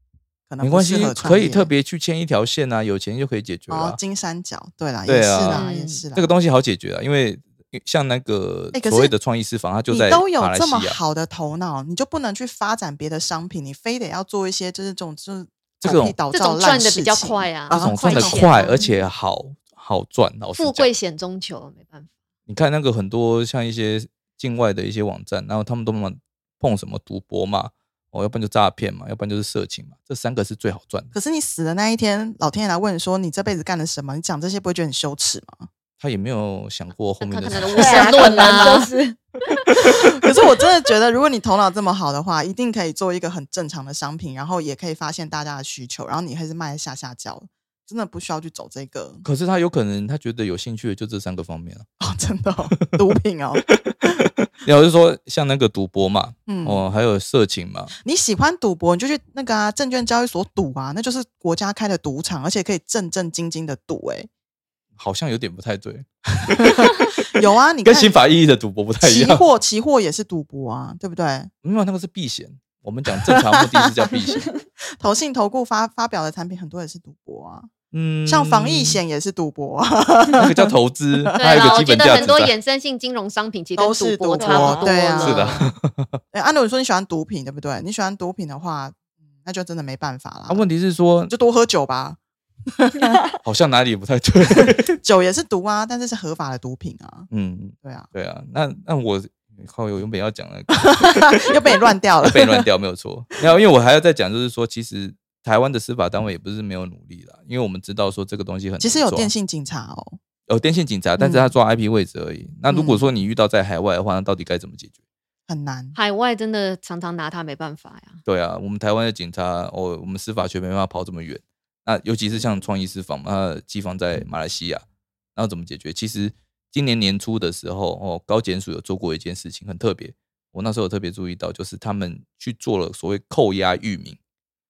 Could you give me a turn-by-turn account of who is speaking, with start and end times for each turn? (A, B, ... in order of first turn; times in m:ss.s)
0:00.5-0:01.7 A
0:00.6-0:04.0 B
0:03.7-0:06.3 A
0:05.0-0:05.6 B
0:05.5-0:06.0 C
0:06.1-0:11.0 B
0:08.7-0:09.1 A
0:09.9-0:18.6 A
0:15.8-0:16.2 B
0:16.3-0:18.9 C
0:17.7-0:20.9 B
0:20.6-0:22.1 C
0:22.5-0:31.1 B
0:31.1-0:35.7 A
0:36.0-0:38.8 B
0:37.2-0:38.9 C
0:37.8-0:39.2 D
0:39.8-0:49.2 A
0:49.2-0:51.8 B
0:52.0-0:54.1 A
0:53.7-0:57.9 B
0:56.5-0:56.8 A
0:58.0-1:04.3 A
1:05.0-1:07.2 B
1:06.6-1:08.1 A
1:07.8-1:09.4 B
1:09.0-1:11.5 A
1:11.6-1:14.4 B
1:15.0-1:17.7 A
1:17.9-1:19.0 B
1:18.2-1:21.6 A
1:20.4-1:22.5 B
1:21.4-1:25.2 C
1:23.8-1:25.7 A
1:24.4-1:25.5 D
1:25.2-1:26.2 B
1:26.3-1:30.6 A
1:30.5-1:31.3 B
1:31.3-1:32.2 A
1:32.8-1:33.2 A
1:33.4-1:35.0 B
1:34.6-1:37.3 A
1:37.3-1:41.7 B
1:37.8-1:38.1 A
1:40.8-1:42.6 A
1:42.2-1:49.3 B
1:48.8-1:50.2 A
1:50.5-1:54.9 B
1:51.2-1:51.5 A
1:52.7-1:53.1 A
1:55.5-1:56.0 A
1:55.9-1:58.2 C
1:58.2-2:14.2 B